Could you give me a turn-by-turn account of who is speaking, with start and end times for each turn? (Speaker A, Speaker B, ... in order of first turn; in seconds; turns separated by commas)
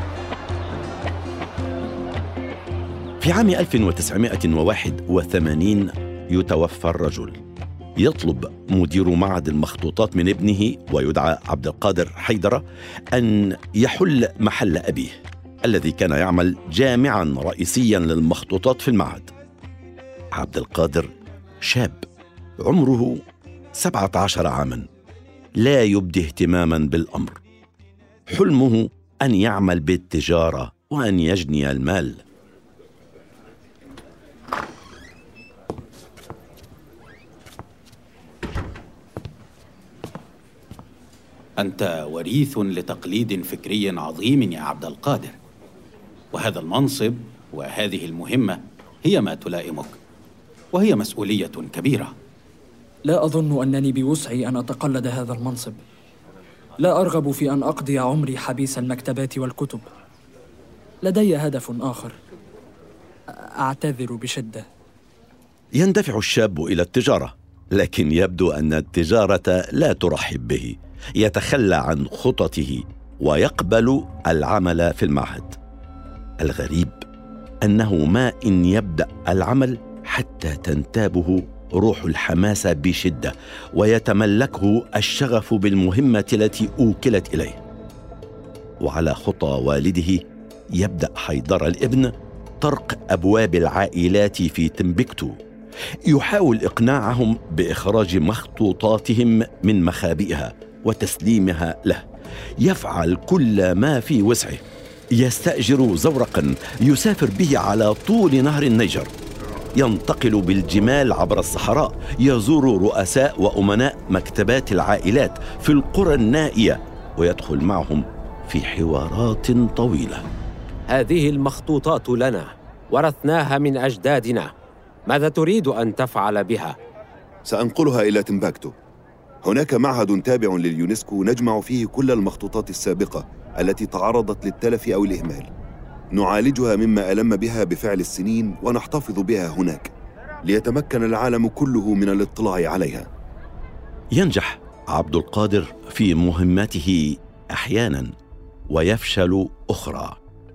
Speaker A: 3.2-7.4, Speaker A: 8.0-19.3, Speaker A: 20.4-21.1, Speaker A: 21.6-22.0, Speaker A: 22.6-23.2, Speaker A: 23.8-24.8, Speaker A: 25.6-27.4, Speaker A: 28.3-32.2, Speaker B: 41.6-45.3, Speaker B: 46.3-50.0, Speaker B: 50.7-52.1, Speaker C: 53.0-55.8, Speaker C: 56.8-59.9, Speaker C: 61.0-62.2, Speaker C: 63.6-64.7, Speaker A: 65.8-75.5, Speaker A: 76.4-77.0, Speaker A: 77.7-87.6, Speaker A: 88.8-90.2, Speaker A: 90.8-95.4, Speaker A: 96.1-102.0, Speaker A: 102.6-104.6, Speaker A: 105.2-109.1, Speaker A: 109.8-120.2, Speaker D: 120.9-124.5, Speaker D: 125.1-126.8, Speaker E: 127.5-128.7, Speaker E: 129.4-135.5, Speaker E: 136.1-139.9, Speaker E: 140.4-143.1, Speaker A: 144.2-148.1, Speaker A: 148.7-150.2